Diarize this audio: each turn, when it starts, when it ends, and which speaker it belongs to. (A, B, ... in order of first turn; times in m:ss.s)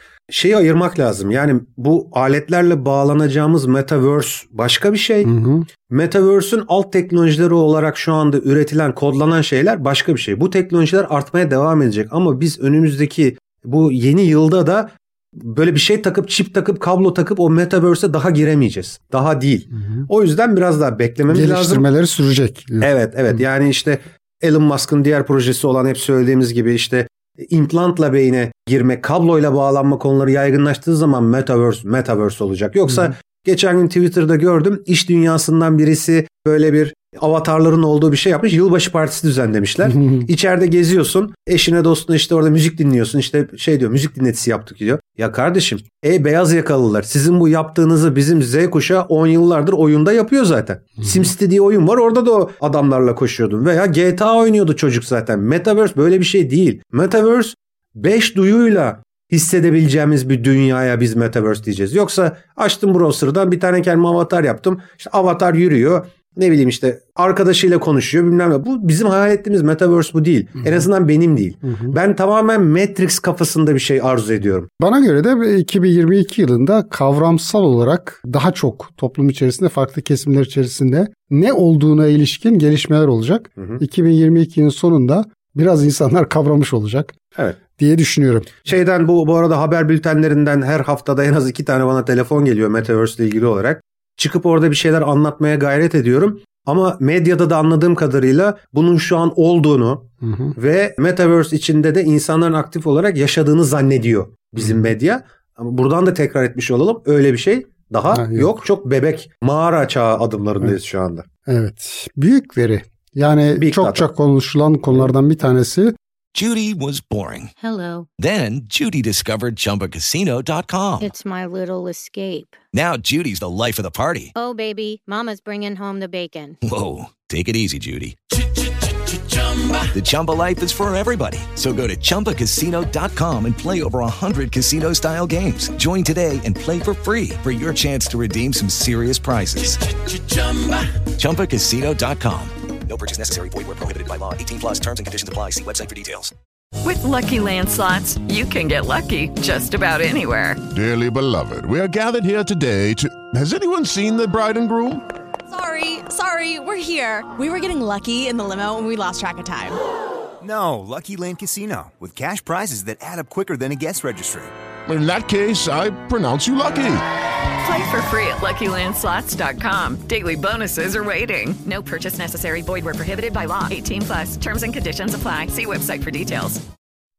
0:00.3-0:05.3 A
0:05.2-0:05.7 B
0:05.9-0:21.8 A
0:19.8-0:20.1 B
0:21.3-0:22.9 B
0:22.8-1:14.7 A
0:40.0-0:40.3 B
1:11.6-1:12.0 B
1:14.8-1:27.1 B
1:27.8-1:28.6 B
1:28.7-1:51.2 A
1:40.2-1:40.5 B
1:48.1-1:48.5 B
1:51.5-1:56.0 B
1:53.6-1:54.1 A
1:56.3-1:57.5 C
1:57.6-1:58.1 D
1:58.2-2:01.1 C
2:01.0-2:02.6 D
2:02.7-2:04.3 C
2:04.4-2:06.6 D
2:06.6-2:08.2 C
2:09.9-2:20.5 C
2:21.1-2:26.3 C
2:26.8-2:30.6 E
2:30.7-2:35.0 F
2:35.5-2:39.8 G
2:40.4-2:44.5 H
2:44.9-2:47.0 F
2:47.6-2:56.6 E